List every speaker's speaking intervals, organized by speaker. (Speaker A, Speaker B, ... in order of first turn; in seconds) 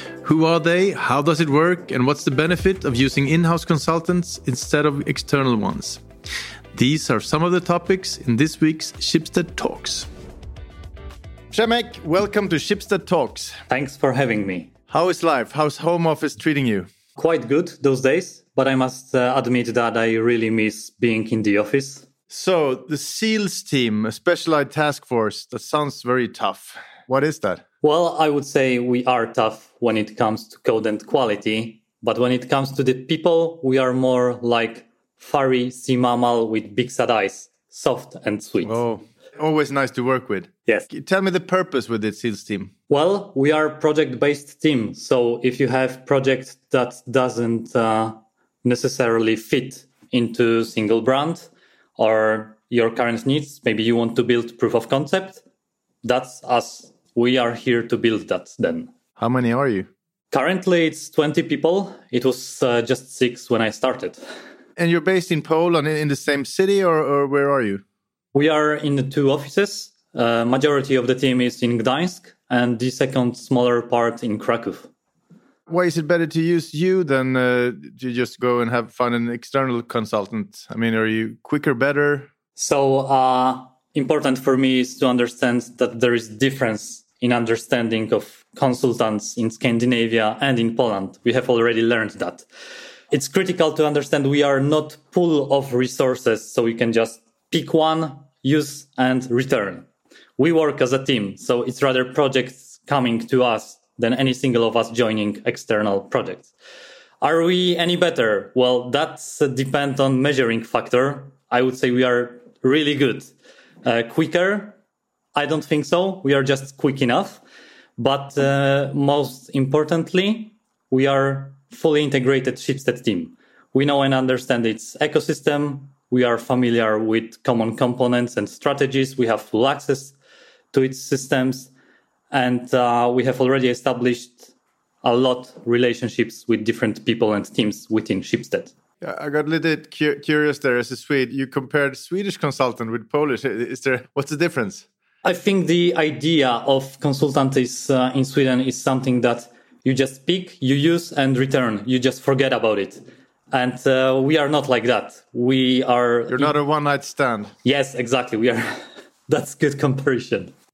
Speaker A: 0.2-6.0, 6.7-10.1, 11.5-13.6, 14.9-16.9, 22.3-27.6, 38.6-42.7, 59.2-59.9, 64.8-67.8, 75.7-82.3, 139.0-144.9, 156.3-157.5
Speaker B: 13.7-14.7, 17.2-22.1, 27.8-38.8, 42.9-55.4, 56.0-58.9, 60.3-64.2, 68.3-74.9, 82.6-92.5, 93.1-99.9, 100.4-106.5, 107.2-113.3, 113.8-114.8, 115.3-117.4, 118.0-130.2, 130.7-131.7, 132.3-134.5, 135.0-138.7, 145.2-156.5, 157.6-158.7, 159.3-160.5